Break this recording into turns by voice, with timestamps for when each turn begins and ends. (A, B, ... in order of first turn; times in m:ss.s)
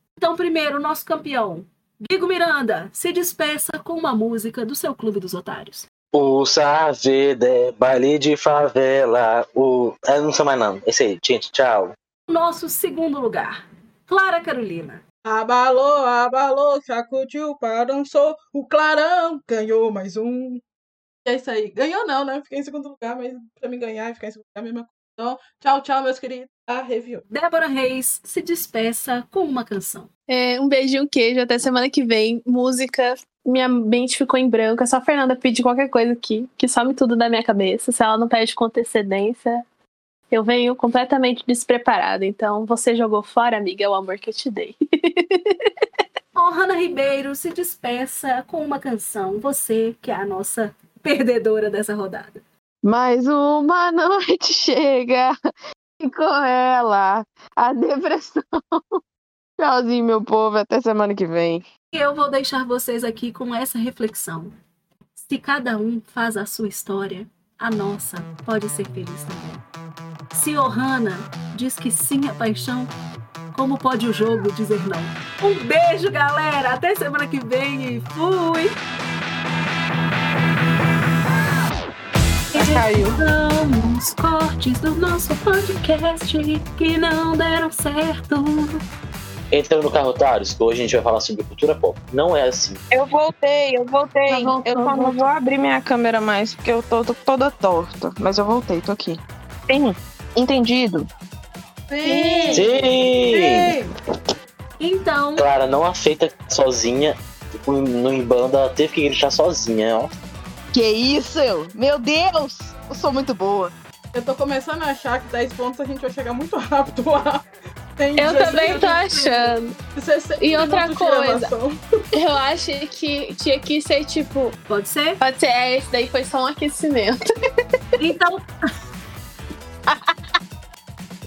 0:00.2-0:05.9 A
0:06.1-0:12.0 B
0:12.3-0:15.0 A
0:15.2-0:20.6 C
0:21.2-0:27.2 C
0:27.3-0:30.1 A
0:30.3-0:39.6 D
0:40.3-0:45.7 D
0:46.4-0:52.4 A
0:52.8-0:55.4 E
0:56.0-0:59.0 E
0:59.6-1:01.7 E
1:01.9-1:04.5 A
1:05.2-1:09.6 A
1:10.3-1:12.9 A
1:13.5-1:18.8 A
1:22.6-1:28.8 A
1:22.6-1:23.1 E
1:29.5-1:32.8 B
1:32.9-1:41.1 E
1:34.3-1:35.2 D
1:41.9-1:43.9 C
1:42.0-1:42.7 D
1:42.5-1:43.8 B
1:44.8-1:45.4 A
1:45.4-1:50.1 B
1:50.7-1:53.7 E
1:54.1-1:58.9 C
1:58.2-1:59.8 D
1:58.2-1:59.6 A
1:59.9-2:01.8 C
2:00.4-2:01.5 D
2:02.1-2:04.6 D
2:04.7-2:05.2 A
2:05.2-2:07.2 D
2:08.0-2:08.4 A